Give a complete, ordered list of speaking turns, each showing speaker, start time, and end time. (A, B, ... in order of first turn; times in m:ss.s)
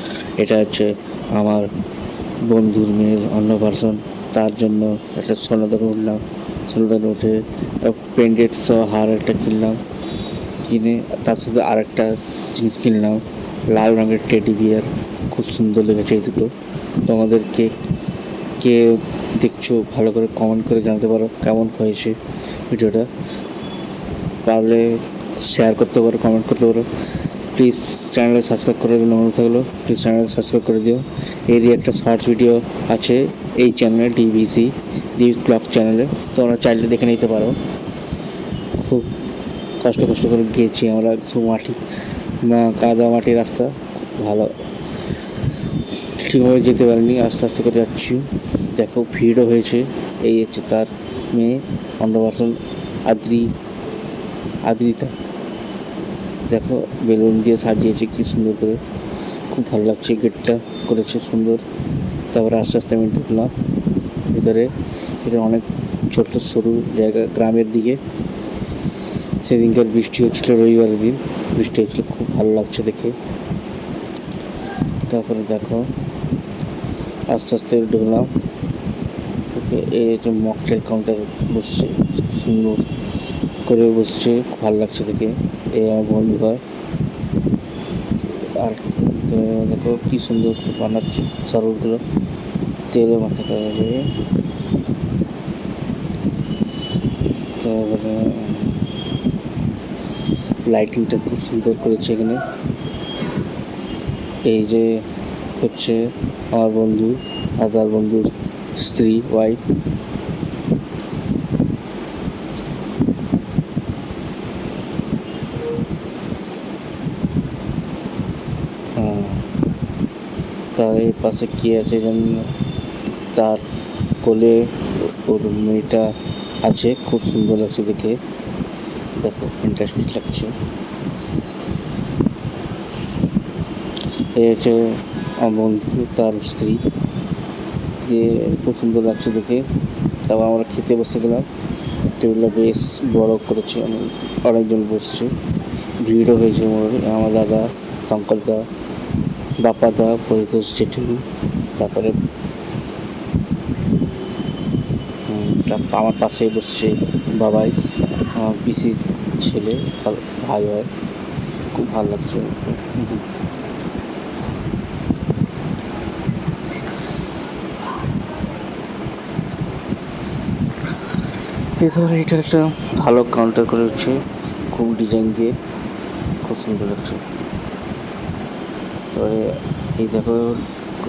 0:00.4-0:01.7 A
0:02.4-0:09.8 A
0:10.6-0:16.5 A
0:17.0-0:17.8 A
0:18.6-0:23.1 A
0:24.4-0:26.9 A
0:27.6-0:37.6 A
0:38.8-0:39.1 A
0:39.8-0:41.8 A
0:42.4-0:44.6 A
0:46.1-0:53.5 A
0:54.6-0:55.2 A
0:56.5-0:58.8 A
0:59.5-1:01.6 A
1:02.3-1:03.5 A
1:04.3-1:08.0 A
1:09.4-1:13.2 A
1:15.1-1:15.9 A
1:17.3-1:18.3 A
1:19.5-1:22.9 A
1:23.6-1:26.6 A
1:28.6-1:32.0 A
1:32.9-1:34.1 A
1:37.6-1:38.9 A
1:40.7-1:42.4 A
1:44.4-1:45.1 A
1:45.6-1:49.6 A
1:59.0-1:59.5 A
2:00.7-2:03.6 A
2:04.2-2:08.2 A
2:09.2-2:10.6 A
2:14.3-2:16.8 A
2:18.0-2:19.7 A
2:20.2-2:21.5 A
2:22.2-2:25.4 A
2:26.0-2:28.7 A
2:29.6-2:32.2 A
2:35.3-2:37.8 A
2:38.3-2:40.9 A
2:41.7-2:43.2 A
2:51.8-2:55.6 A
2:56.4-2:57.2 A
2:59.1-3:00.7 A